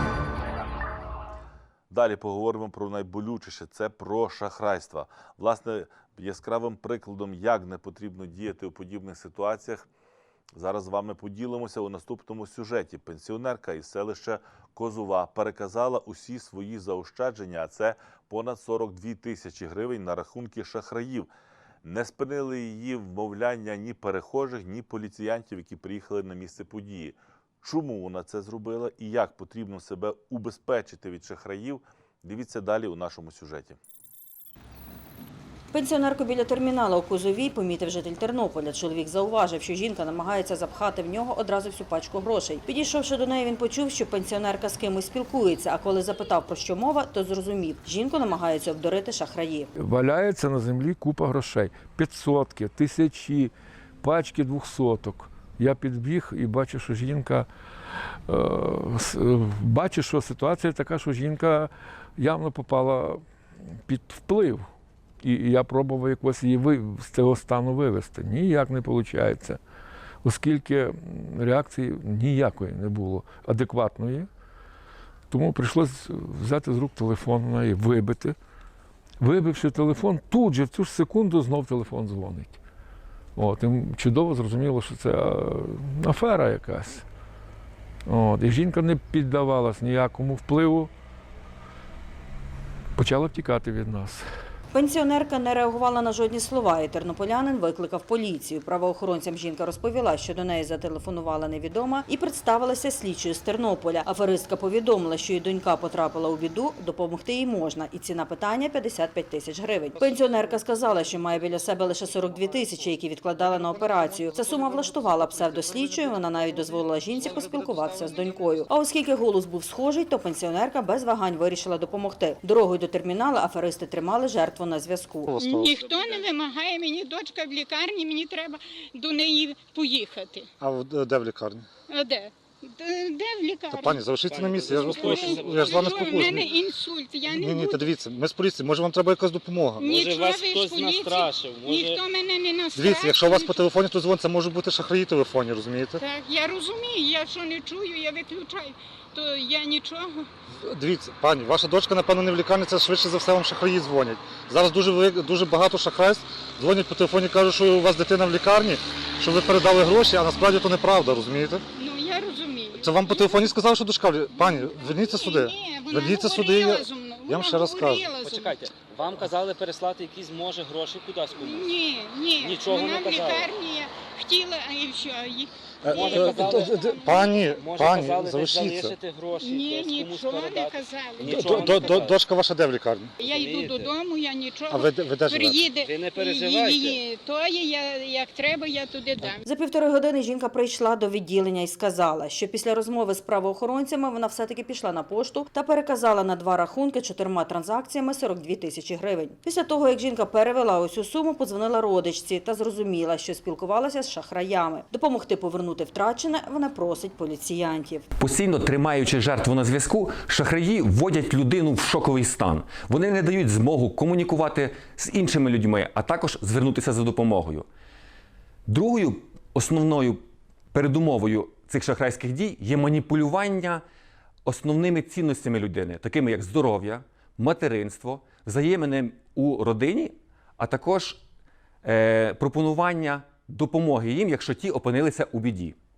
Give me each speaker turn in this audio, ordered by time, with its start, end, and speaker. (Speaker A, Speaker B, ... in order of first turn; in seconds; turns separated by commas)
Speaker A: 1.9-9.9, Speaker A: 10.6-21.3, Speaker A: 21.8-33.8, Speaker B: 35.7-49.7, Speaker C: 49.8-57.5, Speaker C: 58.3-63.2, Speaker C: 63.9-64.7, Speaker C: 65.2-69.6, Speaker C: 70.2-74.3, Speaker C: 75.3-78.4, Speaker C: 79.2-82.6, Speaker C: 83.4-87.0, Speaker C: 88.1-90.9, Speaker C: 93.0-94.2, Speaker B: 94.7-125.4, Speaker D: 125.3-125.8, Speaker E: 125.4-130.5, Speaker D: 130.6-131.7, Speaker E: 131.9-134.0, Speaker D: 133.7-136.6, Speaker F: 134.3-136.5, Speaker E: 134.9-137.9, Speaker D: 137.3-139.9, Speaker F: 139.8-142.0, Speaker E: 139.8-143.7, Speaker D: 142.7-146.0, Speaker E: 146.0-150.3, Speaker D: 150.6-161.7, Speaker E: 161.8-163.5, Speaker D: 162.8-168.1, Speaker E: 164.3-168.6, Speaker F: 168.2-171.6, Speaker E: 171.4-177.8, Speaker F: 172.4-173.5, Speaker D: 175.8-179.0, Speaker F: 175.9-176.6, Speaker F: 177.7-182.2, Speaker E: 179.4-182.0, Speaker D: 181.2-183.2, Speaker E: 183.2-189.4, Speaker F: 183.3-183.9, Speaker D: 184.7-185.7, Speaker F: 185.8-187.0, Speaker B: 189.4-208.1, Speaker G: 208.2-217.7, Speaker G: 218.7-223.8, Speaker G: 224.4-231.2, Speaker G: 231.8-235.8